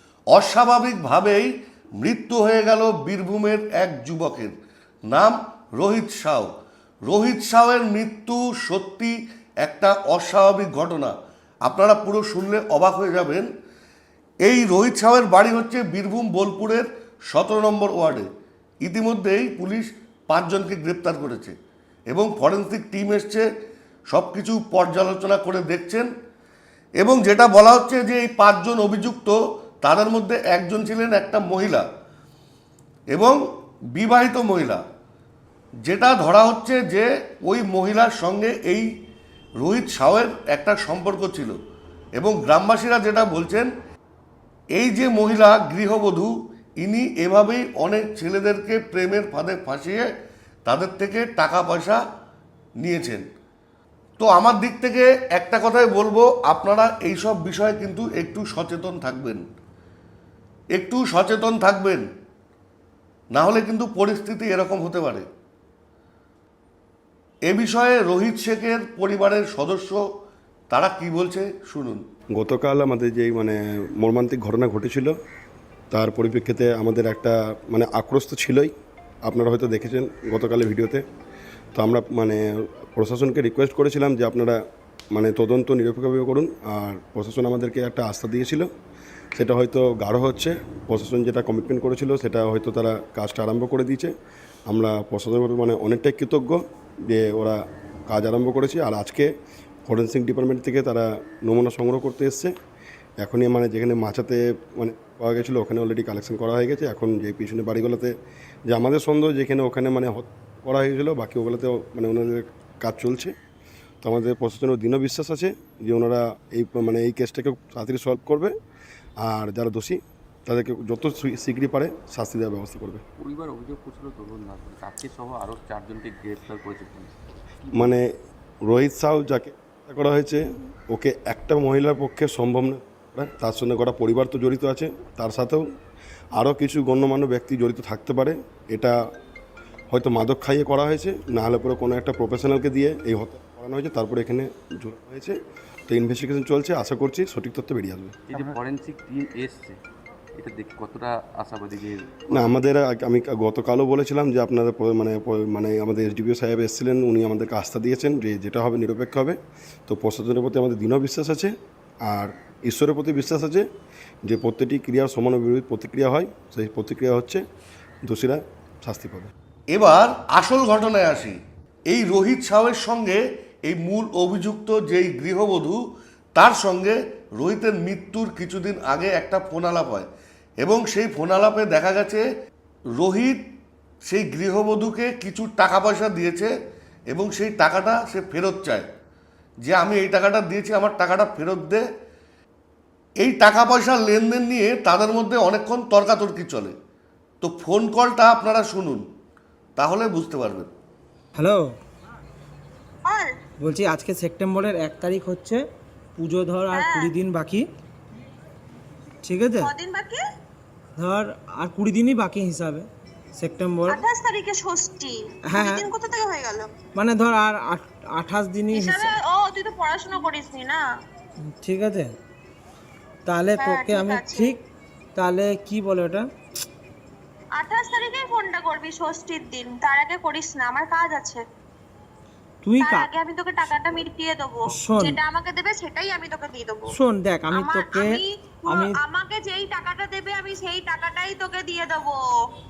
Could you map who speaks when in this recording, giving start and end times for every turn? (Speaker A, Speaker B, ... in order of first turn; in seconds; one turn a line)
Speaker A: 0.3-4.5
Speaker A: 5.1-6.5
Speaker A: 7.1-11.1
Speaker A: 11.6-13.5
Speaker A: 14.4-18.3
Speaker A: 18.8-21.5
Speaker A: 22.1-23.4
Speaker A: 24.1-26.1
Speaker A: 27.0-31.8
Speaker A: 33.1-33.4
Speaker A: 34.0-34.8
Speaker A: 35.9-38.9
Speaker A: 39.6-41.5
Speaker A: 42.2-43.7
Speaker A: 44.8-50.0
Speaker A: 50.6-52.0
Speaker A: 52.8-53.2
Speaker A: 54.2-59.4
Speaker A: 60.7-62.0
Speaker A: 63.3-65.3
Speaker A: 67.5-70.0
Speaker A: 70.7-72.0
Speaker B: 72.3-75.1
Speaker B: 75.9-78.7
Speaker B: 79.2-81.0
Speaker B: 81.7-84.6
Speaker B: 85.1-88.7
Speaker B: 89.3-94.1
Speaker B: 94.7-99.3
Speaker B: 99.9-102.5
Speaker B: 103.2-108.1
Speaker B: 108.7-113.3
Speaker B: 114.0-118.5
Speaker B: 119.2-123.0
Speaker C: 123.2-128.0
Speaker B: 127.7-128.0
Speaker B: 128.7-135.6
Speaker B: 136.3-138.9
Speaker B: 139.9-148.2
Speaker C: 148.3-149.8
Speaker C: 150.3-152.6
Speaker B: 152.3-161.5
Speaker B: 162.1-163.7
Speaker B: 164.2-167.4
Speaker B: 168.1-169.3
Speaker A: 169.7-171.4
Speaker A: 171.9-175.8
Speaker A: 176.3-180.1
Speaker A: 180.6-182.2
Speaker A: 183.0-183.4
Speaker A: 184.1-186.5
Speaker A: 187.1-188.8
Speaker A: 189.7-191.8
Speaker A: 193.2-196.7
Speaker A: 197.4-199.0
Speaker A: 199.8-200.7
Speaker D: 201.3-201.7
Speaker E: 203.1-203.3
Speaker D: 203.6-205.6
Speaker D: 206.2-207.6
Speaker E: 206.7-207.1
Speaker D: 209.2-209.7
Speaker E: 209.6-210.2
Speaker D: 210.9-214.0
Speaker E: 213.9-216.7
Speaker D: 215.5-215.9
Speaker D: 216.9-219.1
Speaker E: 218.7-220.8
Speaker D: 221.6-222.1
Speaker D: 223.2-224.6
Speaker E: 223.5-224.5
Speaker D: 225.2-226.3
Speaker E: 227.6-231.4
Speaker D: 232.6-233.1
Speaker E: 232.8-236.9
Speaker D: 234.7-235.2
Speaker D: 236.9-239.0
Speaker E: 237.5-242.2